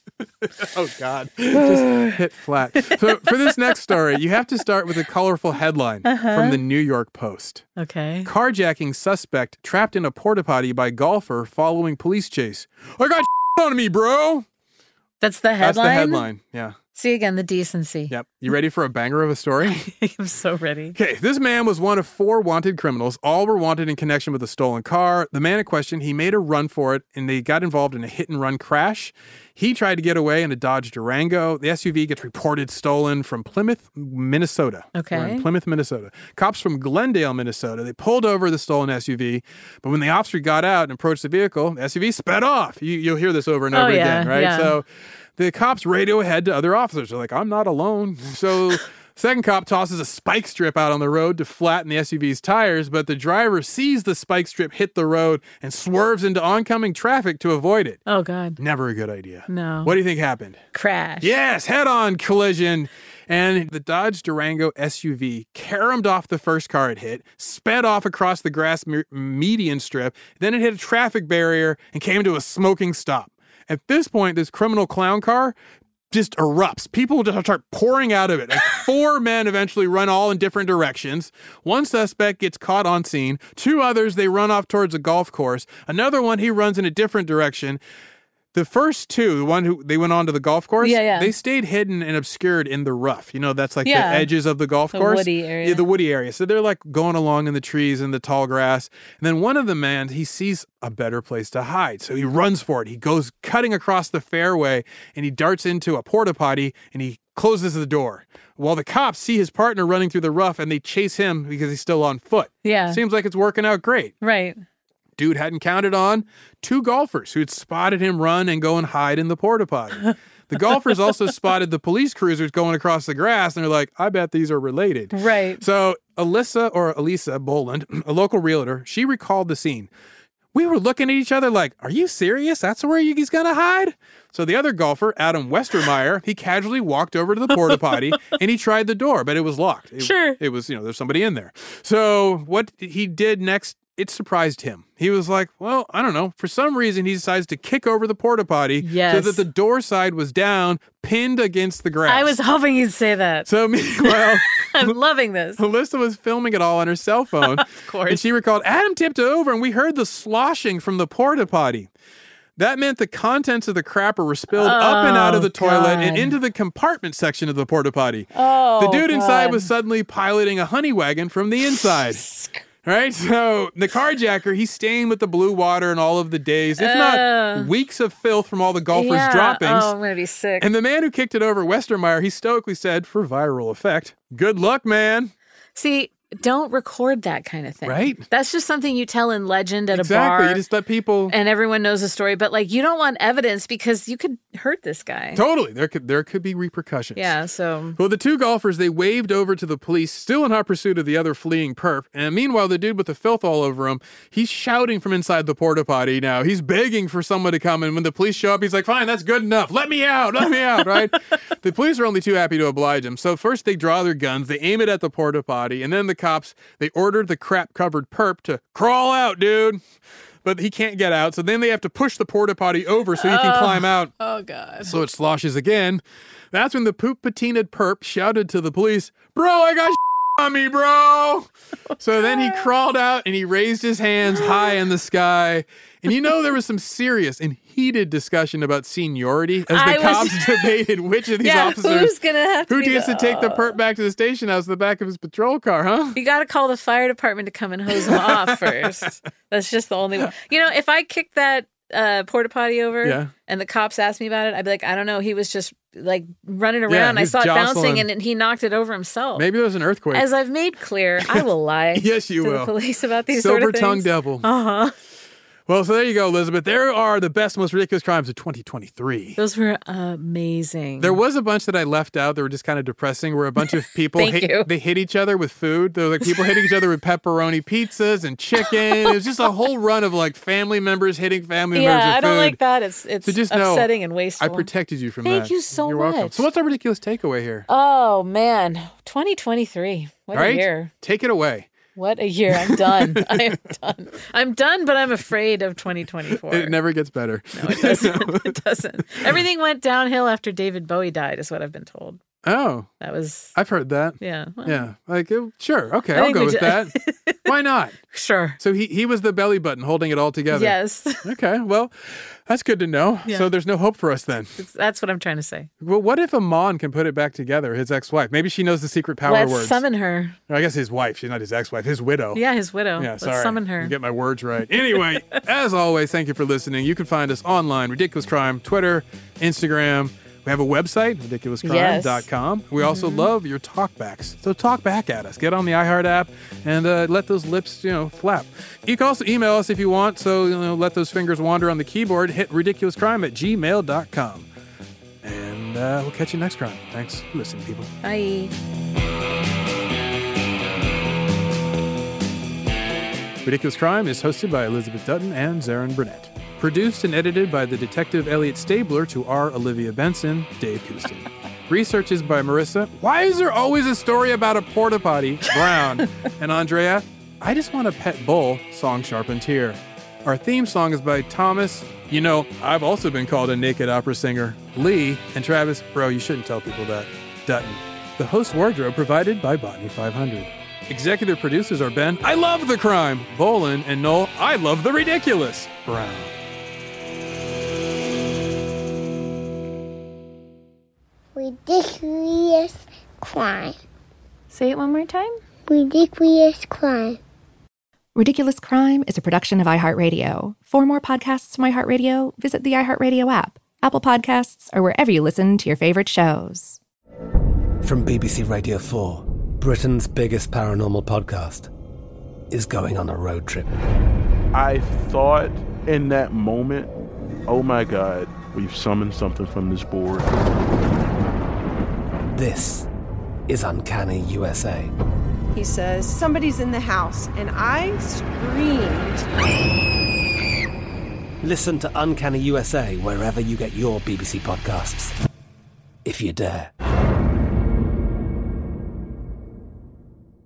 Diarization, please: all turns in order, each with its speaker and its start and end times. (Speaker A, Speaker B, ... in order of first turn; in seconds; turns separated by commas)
Speaker A: 0.4-7.6, Speaker B: 1.5-2.1, Speaker B: 2.8-3.5, Speaker B: 6.0-6.6, Speaker B: 7.8-8.3, Speaker A: 8.2-14.4, Speaker B: 15.2-16.2, Speaker A: 15.6-16.7, Speaker B: 16.9-18.1, Speaker A: 18.1-19.9, Speaker B: 19.7-20.9, Speaker A: 20.9-44.8, Speaker B: 34.9-35.4, Speaker B: 43.7-44.7, Speaker A: 45.4-58.0, Speaker B: 58.1-58.6, Speaker A: 58.6-60.6, Speaker B: 59.5-59.9, Speaker B: 60.7-61.4, Speaker A: 61.2-75.5, Speaker A: 76.1-87.8, Speaker A: 88.5-114.1, Speaker B: 90.8-91.3, Speaker B: 93.8-94.3, Speaker B: 94.9-95.8, Speaker B: 112.6-113.0, Speaker B: 114.2-114.6, Speaker A: 115.2-129.9, Speaker B: 125.1-125.6, Speaker A: 130.5-152.3, Speaker B: 137.5-138.3, Speaker B: 140.0-140.4, Speaker B: 148.8-149.4, Speaker B: 152.1-153.5, Speaker A: 153.5-154.9, Speaker B: 154.0-155.6, Speaker A: 155.6-161.9, Speaker B: 157.4-158.2, Speaker A: 162.6-172.2, Speaker B: 164.5-166.3, Speaker B: 168.3-169.7, Speaker B: 171.7-172.6, Speaker A: 172.8-179.9, Speaker B: 176.8-177.7, Speaker B: 178.9-180.7, Speaker A: 180.6-185.3, Speaker B: 185.8-190.6, Speaker A: 187.8-188.2, Speaker A: 189.9-191.3, Speaker B: 191.3-195.4, Speaker A: 195.3-197.3, Speaker B: 197.1-198.0, Speaker A: 198.0-219.8, Speaker A: 220.4-224.1, Speaker B: 223.2-224.9, Speaker A: 224.8-226.0, Speaker A: 226.5-231.5, Speaker B: 231.9-232.7, Speaker A: 232.0-242.1, Speaker B: 234.3-234.7, Speaker B: 239.7-240.7, Speaker B: 241.4-243.7, Speaker A: 242.7-246.2, Speaker B: 246.1-259.5, Speaker A: 247.9-249.1, Speaker A: 253.0-253.3, Speaker A: 256.9-258.1, Speaker A: 259.4-260.3, Speaker B: 260.1-264.9, Speaker A: 261.9-262.7, Speaker A: 263.3-264.5, Speaker A: 265.7-269.4, Speaker B: 269.4-271.2, Speaker A: 271.0-282.6, Speaker B: 274.1-274.7, Speaker B: 276.2-276.5, Speaker B: 278.6-279.1, Speaker B: 281.7-284.7, Speaker A: 283.2-287.6, Speaker B: 285.2-286.5, Speaker B: 287.7-290.9, Speaker A: 290.3-291.7, Speaker B: 291.9-296.8, Speaker A: 292.5-293.5, Speaker A: 296.3-298.6, Speaker B: 297.6-302.2, Speaker A: 302.4-302.9, Speaker B: 303.0-303.5, Speaker A: 303.5-306.9, Speaker B: 304.2-304.9, Speaker B: 306.1-307.5, Speaker A: 307.4-308.0, Speaker B: 308.1-308.6, Speaker A: 308.6-314.5, Speaker B: 310.5-311.2, Speaker B: 314.6-315.7, Speaker A: 315.8-319.8, Speaker B: 319.2-320.4, Speaker A: 320.5-322.4, Speaker B: 322.3-323.9, Speaker A: 323.0-344.5, Speaker B: 331.6-332.3, Speaker B: 332.8-333.3, Speaker A: 345.2-347.9, Speaker B: 348.0-348.5, Speaker A: 353.4-386.3, Speaker C: 391.4-393.8, Speaker B: 394.5-395.4, Speaker C: 395.7-397.2, Speaker D: 398.1-406.8, Speaker E: 407.8-411.7, Speaker E: 412.5-413.7, Speaker F: 414.5-416.9, Speaker F: 417.5-420.3, Speaker E: 422.3-422.9, Speaker E: 423.5-424.9, Speaker G: 425.5-429.2, Speaker E: 431.4-435.1, Speaker E: 436.0-436.7